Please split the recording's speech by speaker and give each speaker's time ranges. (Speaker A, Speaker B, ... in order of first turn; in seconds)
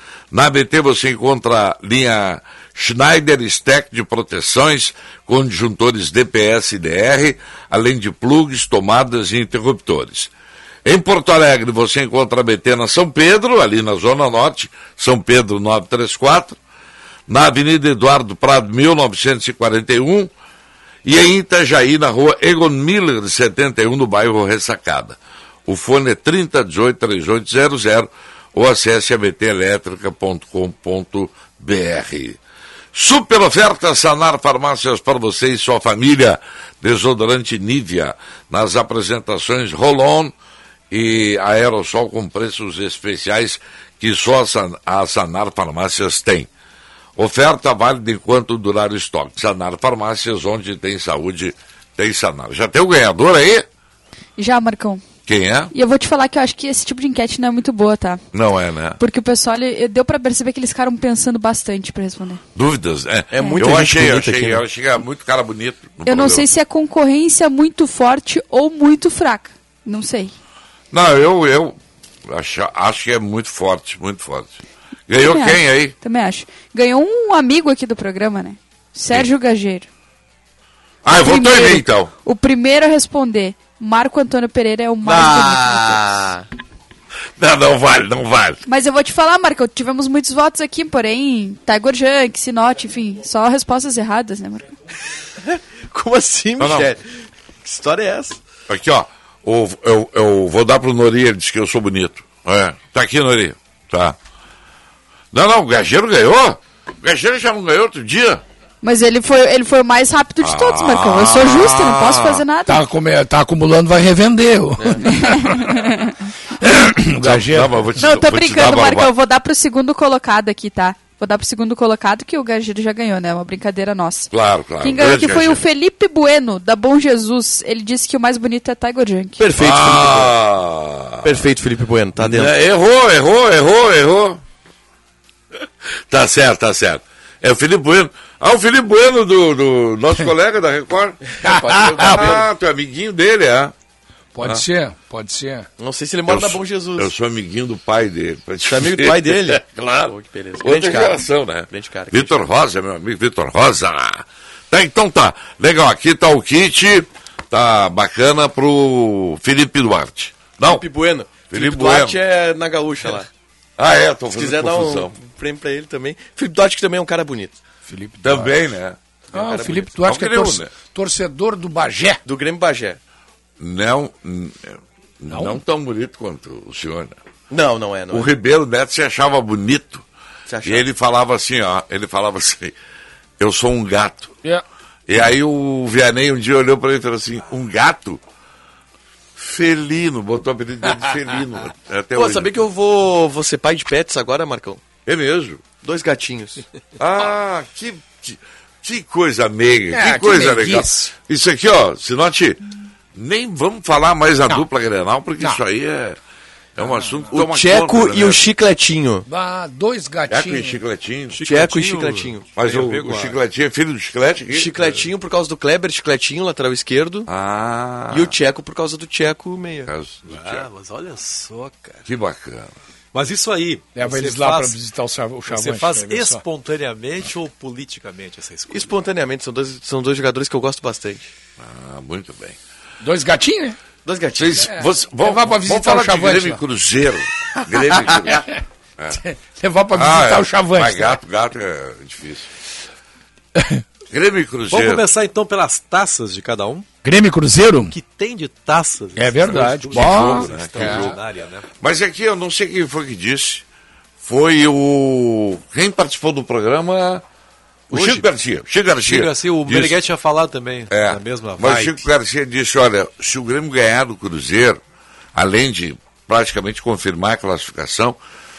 Speaker A: 0.3-10.3, 10.8-16.6, 17.3-20.3, 21.0-32.4, 32.9-40.3, 40.9-46.5, 47.1-53.7, 55.2-55.7, 58.3-59.0, 62.5-66.5, 70.9-75.9, 81.0-82.1, 87.4-88.6, 96.6-96.9, 98.7-104.2, 105.3-108.4, 110.4-112.4, 117.2-119.1, 124.3-125.6, 129.6-131.5, 132.2-134.4, 136.1-141.2, 141.9-143.7, 146.2-160.8, 161.5-162.2, 163.8-165.1, 168.2-169.0, 170.0-170.7, 173.6-177.2, 178.1-180.0, 180.6-182.7, 183.4-184.3, 185.1-188.2, 189.3-192.5, 195.1-195.6, 197.0-202.6, 203.1-206.2, 206.8-208.4, 210.3-211.4, 212.6-214.9, 217.3-218.3, 219.8-220.7, 222.1-222.7, 231.6-232.6, 234.3-239.2, 239.9-242.5, 244.1-245.0, 249.4-251.2, 251.8-253.6, 254.2-257.2, 257.9-260.0, 260.9-264.8, 265.3-268.2
Speaker B: 54.4-55.0, 55.7-58.2, 59.0-62.4, 63.4-63.7, 66.0-70.3, 75.1-79.9, 81.1-86.0, 88.7-94.7, 108.8-112.8, 115.1-116.1, 118.0-129.4
Speaker C: 63.3-64.6, 85.0-86.4, 95.4-97.0, 97.6-98.4, 114.8-115.0, 129.4-130.4, 131.2-132.6, 141.3-142.5, 145.8-147.1, 148.7-152.4, 160.6-163.3, 164.3-167.6, 169.3-169.9, 172.2-173.0, 177.5-178.3, 180.5-180.8, 192.1-194.8, 195.8-196.6, 207.3-209.3, 211.4-212.4, 214.5-217.3, 218.1-219.9, 228.7-231.3, 234.0-234.7
Speaker D: 112.7-115.8, 116.6-117.9, 141.4-142.3, 144.3-145.7, 167.9-168.6, 169.3-172.2, 175.3-175.6, 199.9-201.1, 206.9-207.3, 209.3-210.8, 223.9-226.4, 233.0-233.8, 234.6-236.6, 239.1-241.2, 243.6-243.8, 247.0-247.9, 249.2-251.1
Speaker E: 211.3-213.4, 220.2-222.1, 223.1-224.8, 225.5-229.0, 244.7-246.8, 247.9-251.7, 257.9-258.3, 259.0-262.1